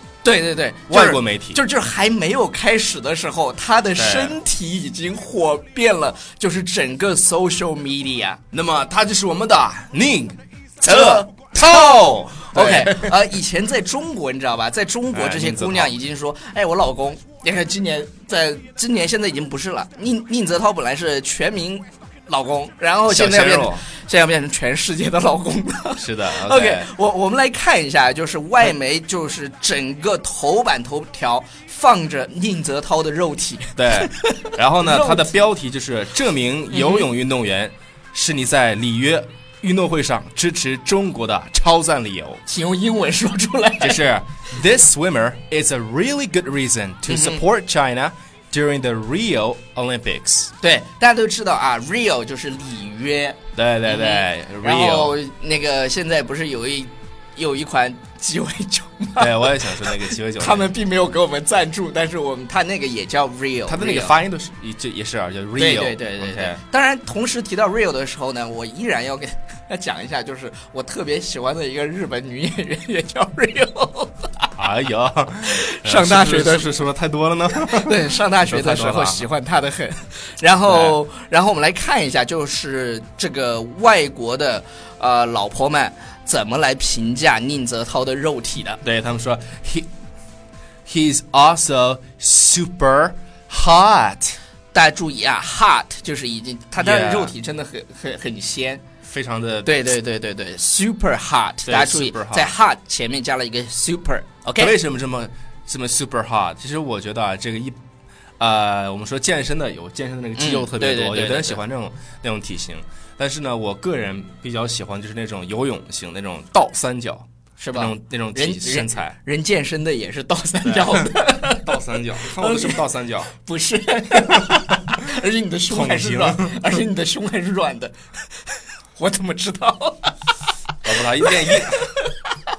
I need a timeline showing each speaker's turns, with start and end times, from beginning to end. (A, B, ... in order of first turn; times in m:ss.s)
0:00.2-0:08.4 A
0:00.9-0:01.6 B
0:04.0-0:04.4 B
0:08.5-0:13.2 B
0:10.8-0:35.3 A
0:15.1-0:15.9 B
0:23.1-0:23.8 B
0:26.0-0:26.9 B
0:33.8-0:42.4 B
0:36.7-0:37.1 A
0:42.5-0:44.0 A
0:43.8-0:50.5 B
0:47.1-0:47.4 A
0:50.6-1:04.1 A
0:53.6-0:55.2 B
0:59.2-1:00.7 B
1:03.7-1:06.6 B
1:05.6-1:14.5 A
1:14.6-1:19.3 B
1:15.5-1:16.7 A
1:17.5-1:28.8 A
1:20.7-1:21.0 B
1:28.8-1:29.9 B
1:30.9-1:34.4 B
1:34.7-1:38.8 A
1:36.8-1:37.3 B
1:39.0-1:39.7 B
1:39.6-1:44.7 A
1:41.6-1:42.5 B
1:44.6-1:47.8 B
1:48.4-1:59.2 B
1:50.4-1:51.6 A
1:57.6-2:10.3 A
2:00.6-2:03.3 B
2:05.7-2:06.6 B
2:10.8-2:11.9 B
2:11.2-2:12.3 A